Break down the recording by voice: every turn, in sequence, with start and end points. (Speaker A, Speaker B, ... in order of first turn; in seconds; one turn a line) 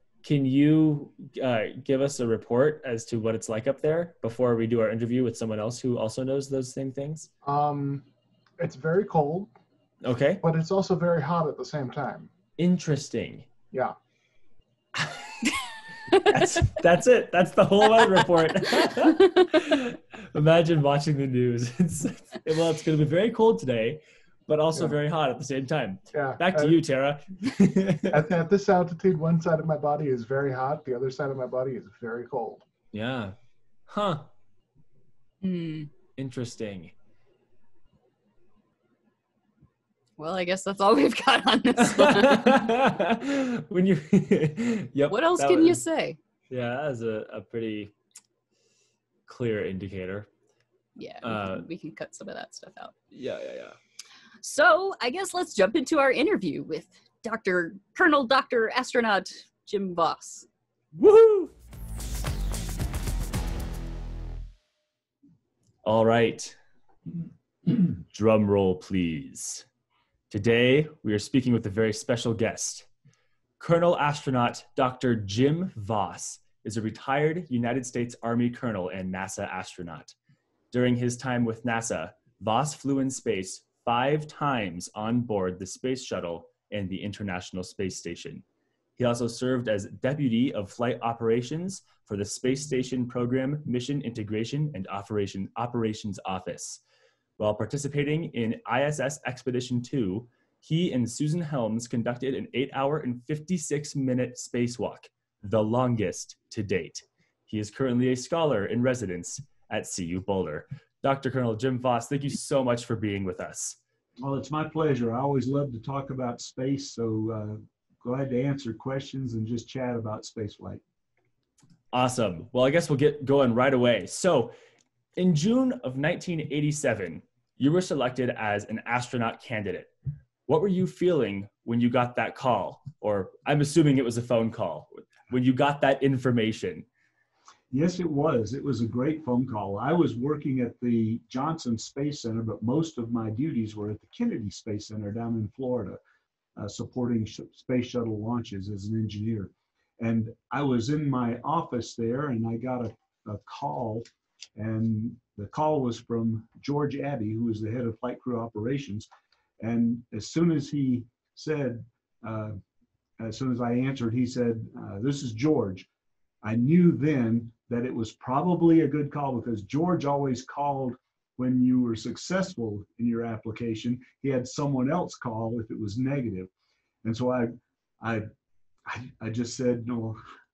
Speaker A: 0.2-7.3
Speaker B: 7.4-8.1
Speaker B: 8.6-9.5
Speaker A: 10.0-10.4
Speaker B: 10.4-12.3
Speaker A: 12.6-13.5
Speaker C: 16.1-16.6
Speaker A: 16.1-28.2
Speaker C: 18.0-18.2
Speaker C: 18.8-19.4
Speaker B: 26.1-26.8
Speaker B: 28.1-32.6
Speaker A: 32.9-33.3
Speaker A: 33.9-34.3
Speaker C: 35.4-35.9
Speaker A: 36.2-36.9
Speaker C: 40.2-42.5
Speaker A: 42.0-45.8
Speaker C: 45.1-46.2
Speaker A: 46.5-47.9
Speaker A: 49.3-50.3
Speaker C: 51.0-52.9
Speaker A: 51.2-51.6
Speaker A: 53.1-53.8
Speaker C: 54.4-60.5
Speaker A: 61.0-61.5
Speaker A: 65.8-66.6
Speaker A: 67.7-69.7
Speaker A: 70.3-72.9
Speaker A: 73.6-80.2
Speaker A: 80.7-88.4
Speaker A: 89.0-96.8
Speaker A: 97.4-113.8
Speaker D: 114.2-120.8
Speaker A: 121.9-124.5
Speaker A: 125.2-129.9
Speaker A: 130.5-136.9
Speaker D: 137.7-146.0
Speaker D: 146.6-159.1
Speaker D: 159.6-162.6
Speaker D: 163.2-165.9
Speaker D: 166.4-176.5
Speaker D: 177.0-178.3
Speaker D: 178.8-180.2